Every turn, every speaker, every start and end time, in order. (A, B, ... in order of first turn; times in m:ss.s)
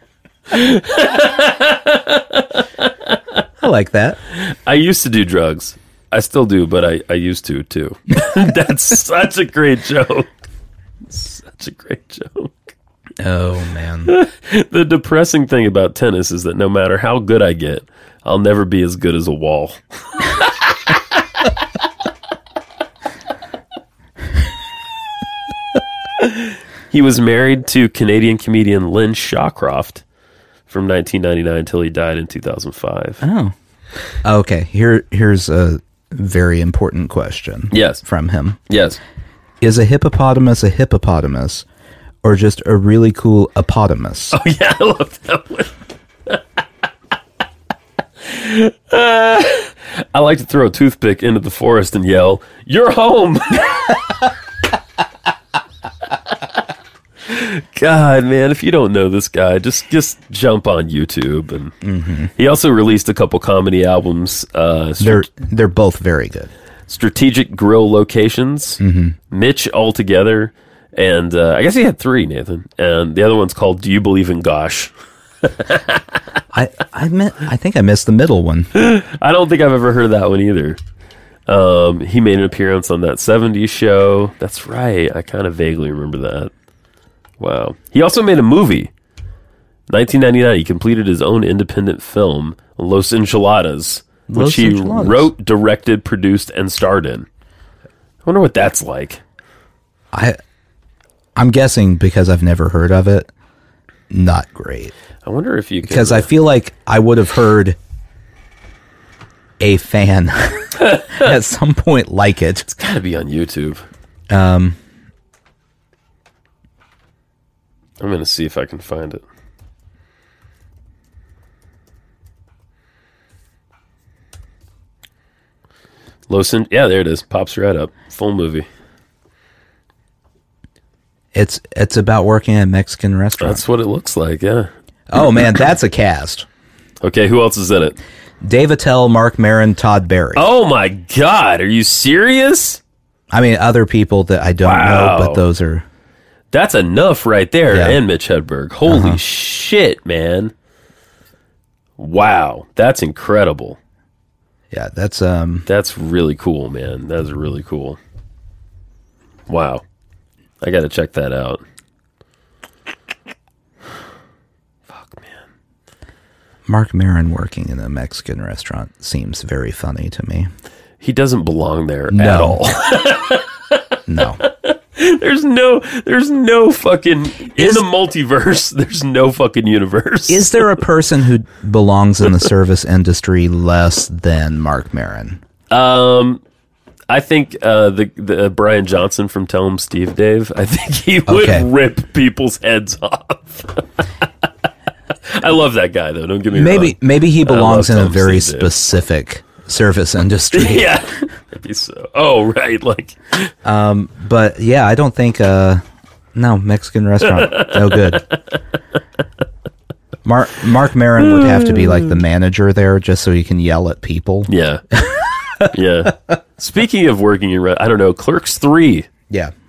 0:00.5-0:03.2 A
0:03.6-0:04.2 B
0:04.3-0:10.4 A
0:11.1-0:12.6 A
0:13.2-0:14.1 B
0:14.1-0:20.5 A
0:26.2-0:30.0 A
0:30.7-0:33.2 A
0:33.2-0:33.5 B
0:34.2-0:38.6 B
0:37.7-0:38.0 A
0:38.7-0:39.0 A
0:39.6-0:41.6 B
0:42.2-0:44.4 B
0:44.3-0:45.7 A
0:48.2-0:54.0 A
0:57.3-1:01.8 A
1:01.8-1:02.3 B
1:02.3-1:05.3 A
1:05.0-1:06.5 B
1:06.9-1:16.2 A
1:08.8-1:09.2 B
1:16.5-1:18.7 B
1:18.7-1:20.8 A
1:21.5-1:26.5 A
1:27.4-1:28.9 A
1:29.9-1:37.3 A
1:34.3-1:35.3 B
1:38.2-1:39.2 A
1:40.1-1:40.4 B
1:41.4-1:43.3 B
1:44.1-1:44.9 B
1:45.2-1:46.3 A
1:45.8-1:47.8 B
1:49.6-1:52.7 B
1:52.7-1:53.9 A
1:54.3-1:54.8 B
1:58.0-1:59.2 A
2:06.3-2:08.7 A
2:11.3-2:13.6 B
2:13.4-2:14.7 A
2:15.1-2:16.5 B
2:17.0-2:18.0 A
2:18.4-2:20.5 B
2:20.4-2:22.8 A
2:23.3-2:25.8 B
2:24.6-2:25.4 A
2:26.5-2:30.5 A
2:27.7-2:28.0 B
2:28.9-2:29.2 B
2:32.0-2:33.8 A
2:34.7-2:35.7 B
2:35.7-2:38.0 A
2:39.5-2:39.8 A
2:40.6-2:41.6 A
2:44.9-2:45.4 A
2:46.7-2:50.5 B
2:51.0-2:53.8 A
2:52.1-2:52.6 B
2:54.1-2:54.4 B
2:54.4-3:00.8 A
2:57.6-2:57.9 B
3:00.3-3:05.4 B
3:05.7-3:06.4 A
3:07.1-3:13.9 A
3:11.3-3:11.7 B
3:15.3-3:18.7 A
3:16.5-3:21.0 B
3:20.5-3:23.5 A
3:23.6-3:25.8 B
3:26.4-3:28.3 B
3:27.4-3:28.2 A
3:30.2-3:35.7 B
3:31.2-3:32.1 A
3:34.5-3:34.8 A
3:35.7-3:39.1 A